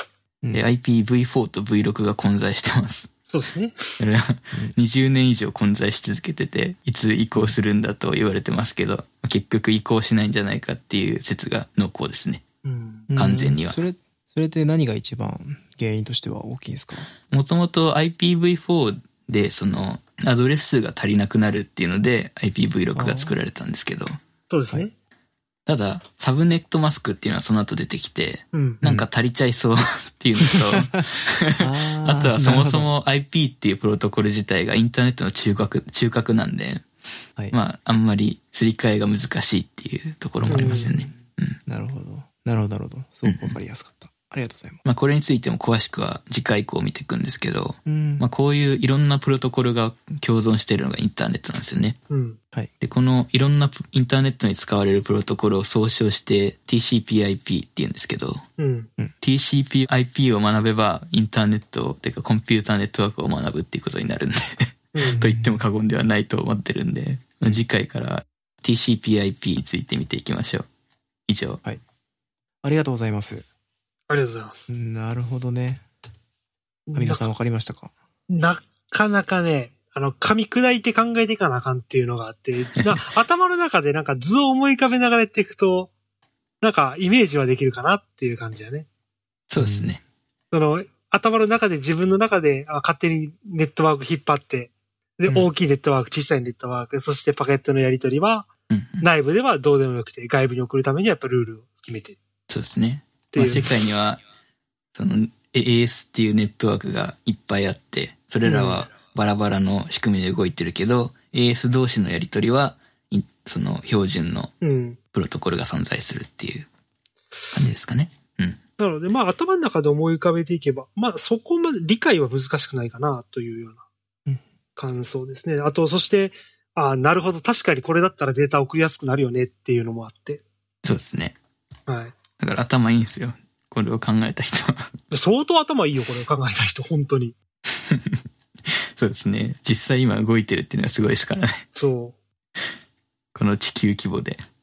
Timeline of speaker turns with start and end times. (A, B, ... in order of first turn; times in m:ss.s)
0:00.5-0:03.1 A
0:03.3-0:04.0 B
0:04.0-0:12.4 A
0:12.6-0:13.1 B
0:13.1-0:17.1 C
0:13.2-0:13.8 A
0:17.3-0:24.2 A
0:22.9-0:23.3 C
0:24.5-0:24.9 B
0:25.7-0:36.9 A
0:28.5-0:28.8 B
0:30.7-0:31.0 C
0:31.6-0:32.9 C
0:37.5-0:41.6 A
0:40.4-0:44.8 C
0:40.5-0:40.9 B
0:43.2-0:43.6 A
0:44.8-0:52.0 A
0:47.9-0:48.2 C
0:52.1-0:52.4 B
0:52.8-0:58.4 A
0:58.6-0:58.9 B
0:59.2-1:10.7 A
1:04.9-1:05.2 B
1:05.0-1:05.6 C
1:11.3-1:11.6 A
1:12.6-1:13.4 C
1:14.1-1:14.7 B
1:14.7-1:15.8 C
1:16.9-1:17.3 B
1:16.9-1:17.9 C
1:18.3-1:25.9 B
1:26.6-1:28.9 B
1:29.5-1:30.0 A
1:29.6-1:29.9 C
1:30.5-1:38.5 B
1:38.7-1:39.1 A
1:39.0-1:42.2 B
1:42.5-1:44.2 A
1:43.3-1:43.7 B
1:44.9-1:54.5 A
1:48.4-1:48.8 B
1:54.6-1:55.0 B
1:55.1-1:56.7 A
1:57.5-1:58.6 A
1:58.8-2:03.8 B
2:04.8-2:10.4 B
2:10.8-2:11.4 A
2:11.9-2:12.1 B
2:12.4-2:14.9 A
2:15.1-2:17.4 B
2:17.8-2:21.6 A
2:21.8-2:22.2 B
2:23.4-2:24.4 A